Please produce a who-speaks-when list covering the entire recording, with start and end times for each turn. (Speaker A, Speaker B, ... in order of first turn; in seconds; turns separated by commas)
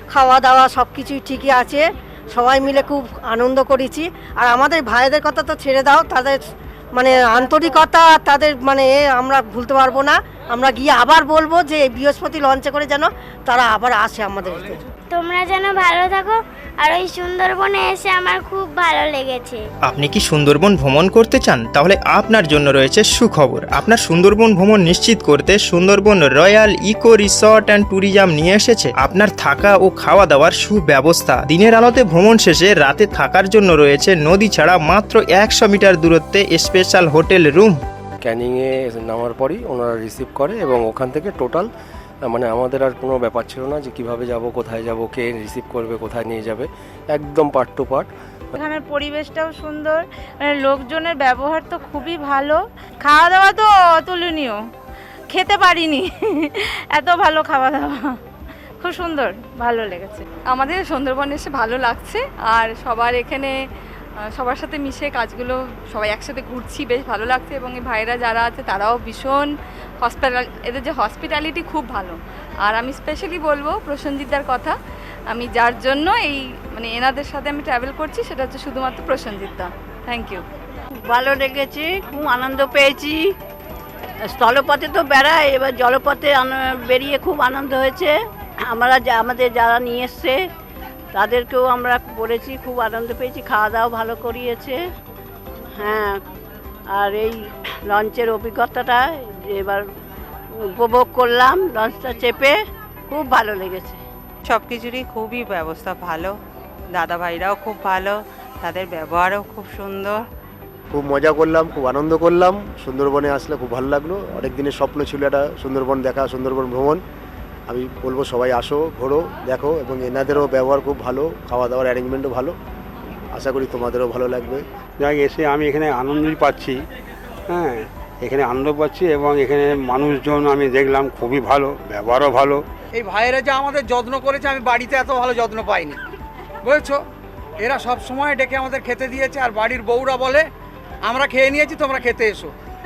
Speaker A: 0.1-6.4, Speaker A: 7.0-14.8, Speaker B: 15.1-19.6, Speaker C: 19.9-37.7, Speaker D: 38.2-41.7, Speaker D: 42.3-48.1, Speaker E: 48.5-54.7, Speaker E: 55.3-58.2, Speaker E: 58.8-60.2, Speaker F: 60.5-63.5, Speaker F: 64.4-69.5, Speaker F: 70.0-74.8, Speaker F: 75.3-80.4, Speaker G: 81.1-83.3, Speaker G: 84.2-90.4, Speaker G: 91.1-94.8, Speaker G: 95.8-96.2, Speaker G: 96.9-99.8, Speaker G: 100.5-102.6, Speaker G: 103.1-104.0, Speaker H: 104.5-106.4, Speaker H: 106.9-110.2, Speaker I: 110.9-117.0, Speaker I: 117.7-122.5, Speaker I: 123.3-124.6, Speaker J: 125.0-126.8, Speaker J: 127.5-132.6, Speaker K: 132.9-136.0, Speaker K: 136.6-137.0, Speaker K: 137.6-140.5, Speaker K: 141.1-142.5